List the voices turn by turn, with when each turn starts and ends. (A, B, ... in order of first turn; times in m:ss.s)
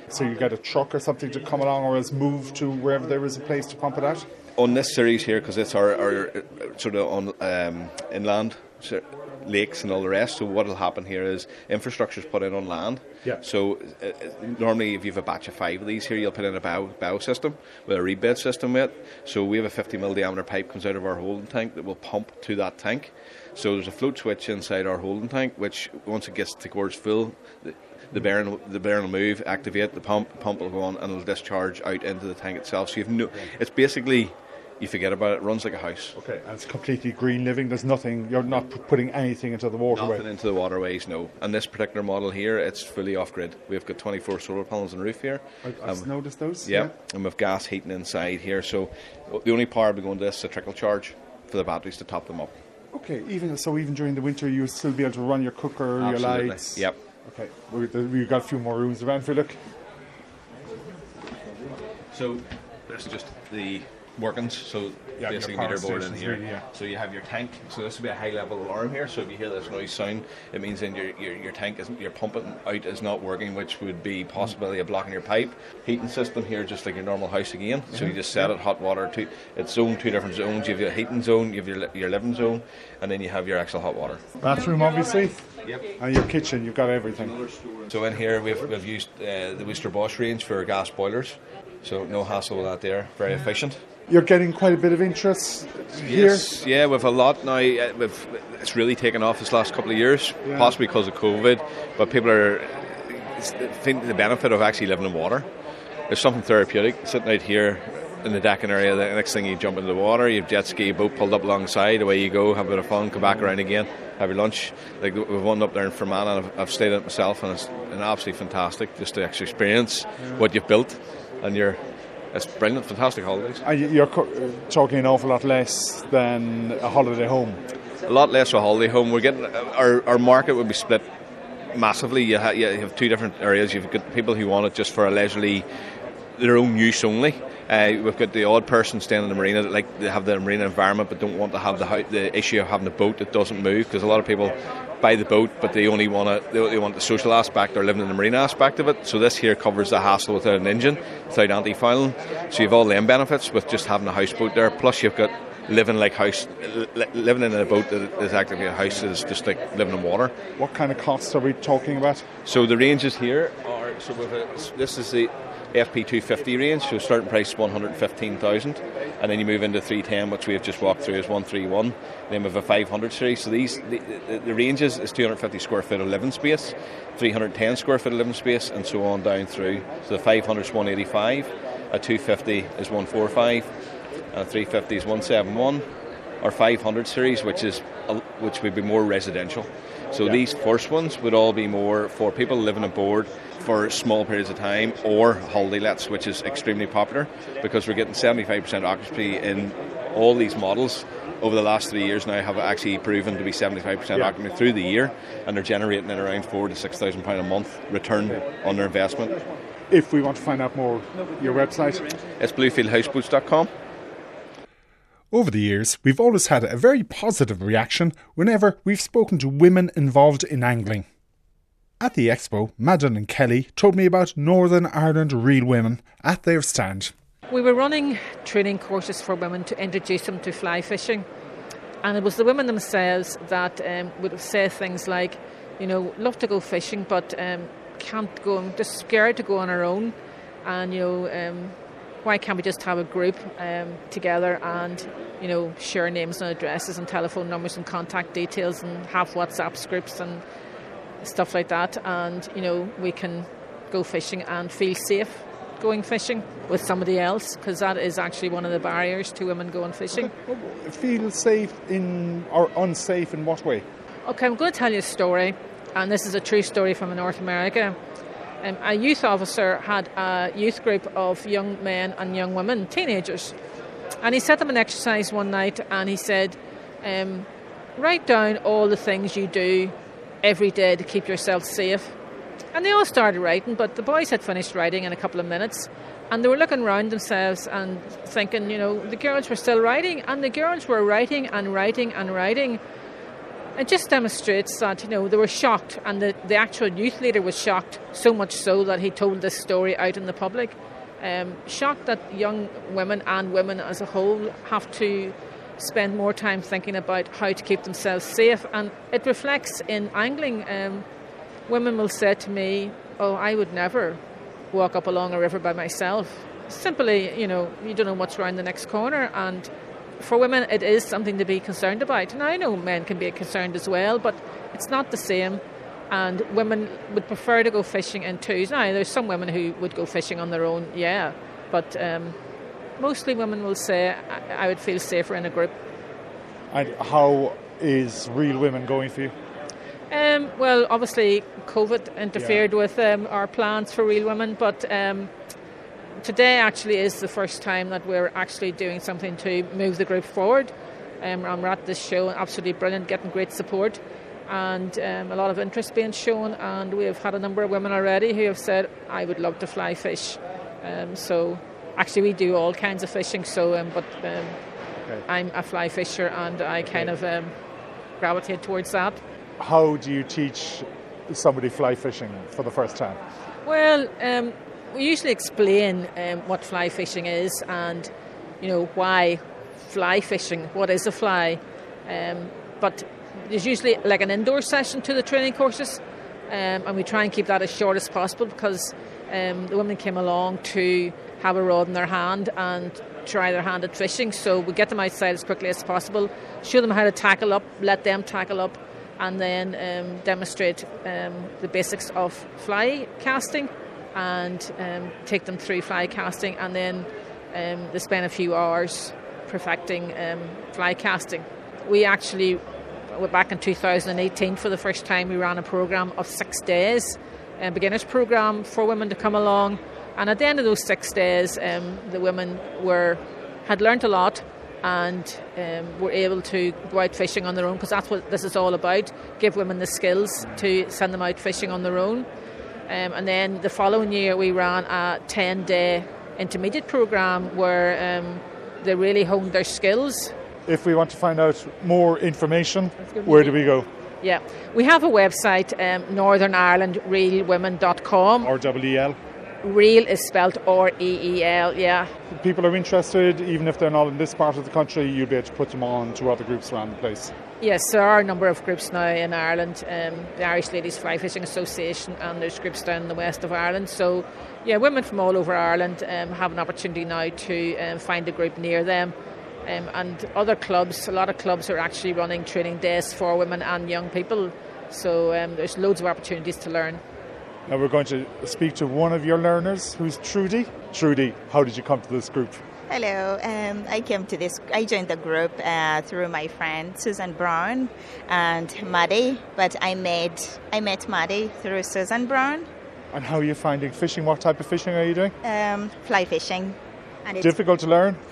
0:00.1-0:04.3 A
0:04.6-0:36.2 B
0:36.2-0:40.2 A
0:39.9-0:46.1 B
0:45.6-0:46.9 A
0:46.6-0:52.6 B
0:52.9-0:59.6 A
0:56.0-0:57.0 B
1:02.1-1:24.3 B
1:05.2-1:06.7 A
1:17.9-1:18.2 A
1:24.4-1:27.4 A
1:27.8-1:33.8 B
1:34.1-1:36.5 A
1:36.0-1:45.5 B
1:40.4-1:40.8 A
1:46.1-2:01.8 B
2:02.3-2:03.6 B
2:03.6-2:07.6 A
2:08.1-2:11.1 B
2:11.7-2:15.7 B
2:16.4-2:40.4 B
2:40.6-2:42.3 A
2:42.4-3:03.7 B
3:04.3-3:05.9 B
3:06.4-3:29.4 B
3:29.9-3:32.2 A
3:32.4-3:33.7 B
3:35.3-3:41.0 A
3:42.0-3:47.1 A
3:47.5-3:51.3 C
3:52.0-4:10.4 C
4:11.2-4:20.3 C
4:20.1-4:23.8 A
4:24.3-4:28.0 C
4:28.6-4:33.6 C
4:34.2-4:42.2 C
4:42.7-4:52.8 C
4:53.8-5:11.0 C
5:11.7-5:14.2 C
5:14.7-5:32.4 C
5:33.0-5:35.8 C
5:36.7-5:39.4 A
5:40.1-5:45.3 C
5:42.4-5:42.6 A
5:46.2-6:04.6 C
6:05.0-6:05.2 A
6:05.3-6:07.5 C
6:06.8-6:07.1 A
6:08.2-6:09.2 C
6:09.6-6:13.2 A
6:13.6-6:18.1 C
6:18.6-7:12.3 C
7:12.9-7:20.4 C
7:20.7-7:23.9 A
7:23.0-7:23.6 C
7:24.2-7:28.5 C
7:28.4-7:29.2 A
7:29.6-7:32.1 C
7:32.3-7:37.3 A
7:37.6-7:49.1 C
7:49.6-7:57.0 C
7:57.7-8:02.6 A
8:02.9-8:12.7 D
8:13.1-8:15.4 A
8:15.4-8:17.5 D
8:17.4-8:18.2 A